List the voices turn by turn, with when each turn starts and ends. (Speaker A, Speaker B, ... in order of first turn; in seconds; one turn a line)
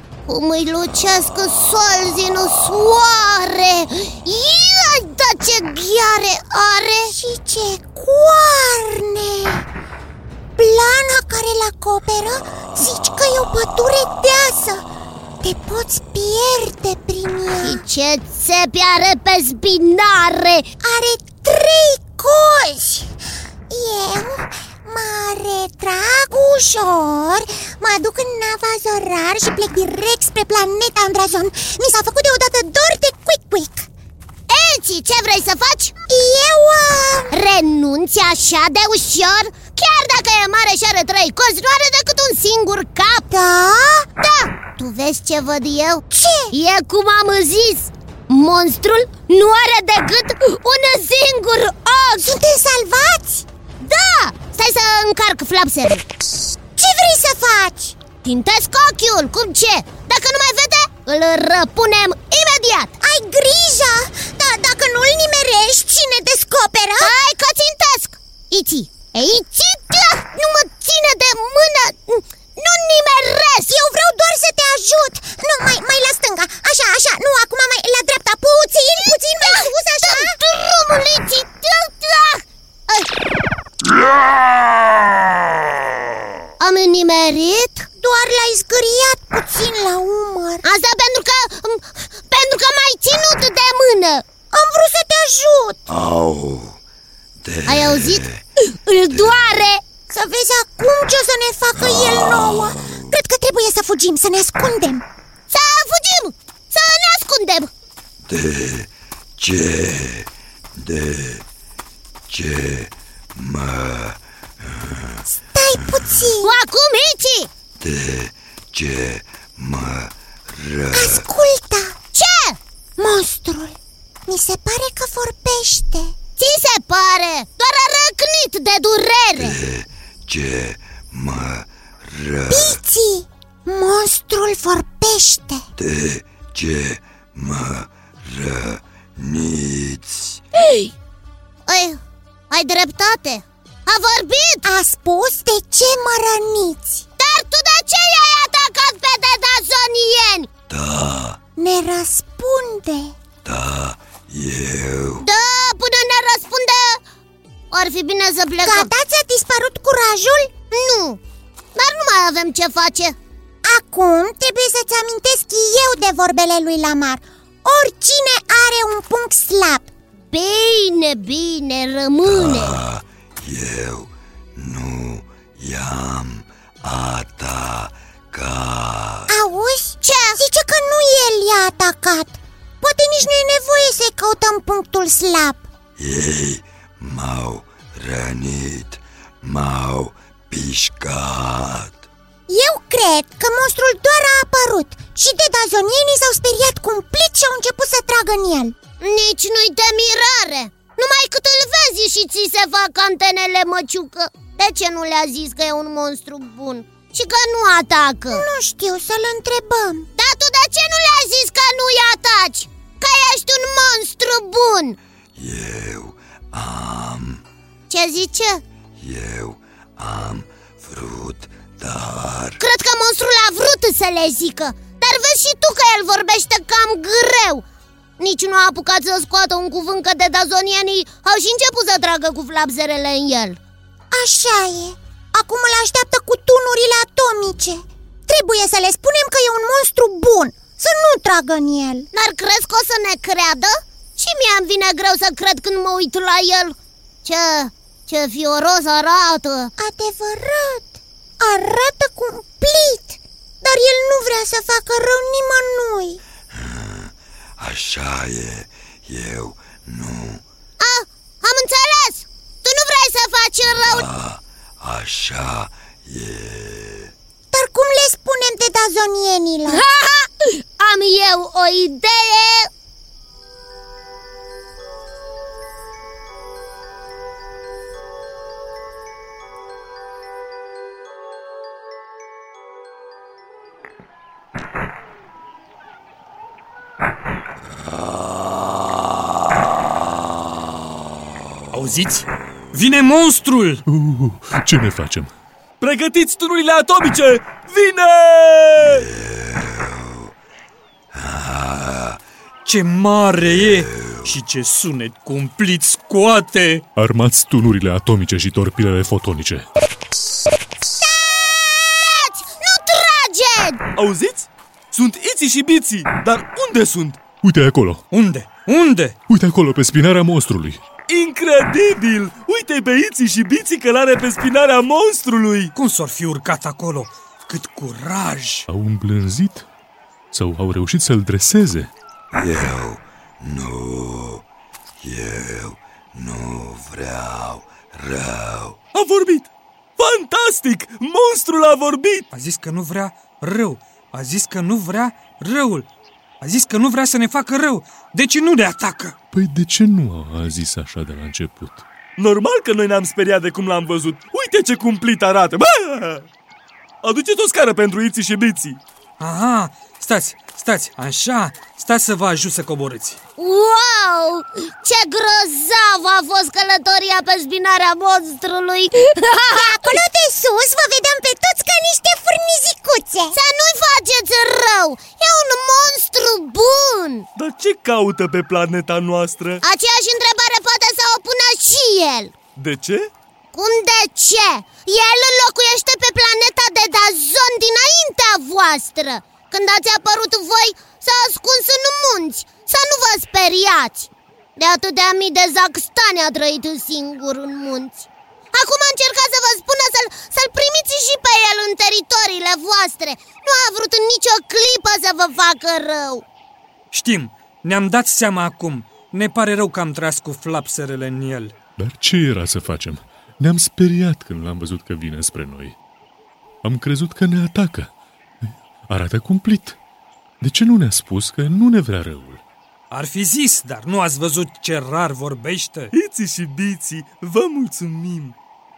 Speaker A: 0.2-7.1
Speaker B: 7.1-9.7
Speaker B: 10.6-14.8
Speaker B: 15.4-17.8
Speaker A: 17.6-20.7
Speaker B: 20.8-23.1
Speaker B: 23.7-33.9
Speaker A: 34.5-35.9
Speaker B: 36.1-37.4
Speaker A: 37.3-43.3
Speaker B: 43.3-44.1
Speaker A: 44.2-52.3
Speaker B: 46.1-46.5
Speaker B: 52.2-53.4
Speaker A: 53.8-56.0
Speaker B: 56.8-58.0
Speaker A: 58.2-62.9
Speaker B: 63.0-67.1
Speaker A: 67.0-73.7
Speaker B: 73.7-80.4
Speaker A: 79.4-83.1
Speaker A: 86.6-87.9
Speaker B: 88.0-90.7
Speaker A: 90.6-94.2
Speaker B: 94.5-95.8
Speaker C: 95.9-96.8
Speaker C: 97.4-98.4
Speaker A: 97.7-99.8
Speaker C: 99.1-99.4
Speaker B: 100.1-105.0
Speaker C: 102.0-102.4
Speaker A: 105.5-107.7
Speaker C: 108.3-111.4
Speaker C: 112.3-115.2
Speaker B: 115.5-116.5
Speaker A: 116.4-117.5
Speaker C: 117.8-121.2
Speaker B: 120.9-122.0
Speaker A: 122.1-122.6
Speaker B: 123.0-126.2
Speaker A: 126.4-129.6
Speaker C: 129.4-132.8
Speaker B: 132.5-135.6
Speaker C: 135.8-140.4
Speaker A: 141.7-142.0
Speaker A: 142.5-144.6
Speaker B: 144.6-147.0
Speaker A: 147.2-150.5
Speaker C: 150.7-151.4
Speaker B: 151.6-153.1
Speaker C: 153.4-155.2
Speaker A: 155.2-157.0
Speaker A: 157.7-158.9
Speaker B: 158.6-160.5
Speaker A: 160.7-161.2
Speaker A: 161.8-163.2
Speaker B: 163.6-169.9
Speaker A: 170.3-172.8
Speaker C: 172.2-179.3
Speaker B: 179.3-185.7
Speaker A: 180.0-180.4
Speaker C: 186.0-192.0
Speaker B: 192.5-198.7
Speaker A: 199.0-208.4
Speaker B: 208.3-210.1
Speaker A: 210.2-215.0
Speaker C: 215.4-217.4
Speaker A: 217.9-218.6
Speaker C: 219.0-222.6
Speaker A: 222.6-227.6
Speaker A: 228.2-233.6
Speaker B: 234.1-242.1
Speaker A: 242.1-249.7
Speaker B: 249.8-256.2
Speaker C: 256.5-260.4
Speaker A: 260.8-264.1
Speaker C: 263.6-267.1
Speaker B: 267.5-269.8
Speaker A: 269.7-272.7
Speaker D: 291.7-293.8
Speaker E: 293.9-295.3
Speaker F: 295.8-299.1
Speaker C: 298.8-300.3
Speaker C: 301.1-302.2
Speaker D: 302.6-306.8
Speaker C: 303.4-304.4
Speaker E: 306.9-309.7
Speaker A: 311.0-313.8
Speaker F: 313.9-317.2
Speaker E: 317.4-318.0
Speaker D: 318.1-319.1
Speaker E: 319.3-320.8
Speaker F: 321.1-325.7
Speaker D: 325.7-328.7
Speaker E: 328.7-329.6
Speaker E: 330.3-331.9
Speaker C: 332.3-334.4
Speaker C: 335.0-338.8
Speaker F: 338.9-342.2
Speaker D: 342.3-345.9
Speaker D: 346.4-349.1
Speaker E: 349.3-351.8
Speaker F: 352.2-356.2
Speaker F: 357.0-358.8
Speaker D: 359.2-363.2
Speaker A: 363.4-369.7
Speaker B: 369.5-373.4
Speaker A: 373.3-377.2
Speaker F: 377.4-379.6
Speaker A: 379.6-382.3
Speaker F: 382.6-383.1
Speaker A: 383.5-406.2
Speaker D: 406.9-411.5
Speaker E: 411.8-415.8
Speaker E: 416.6-417.9
Speaker E: 418.5-419.8
Speaker E: 420.4-422.4
Speaker D: 422.9-425.9
Speaker F: 425.9-428.3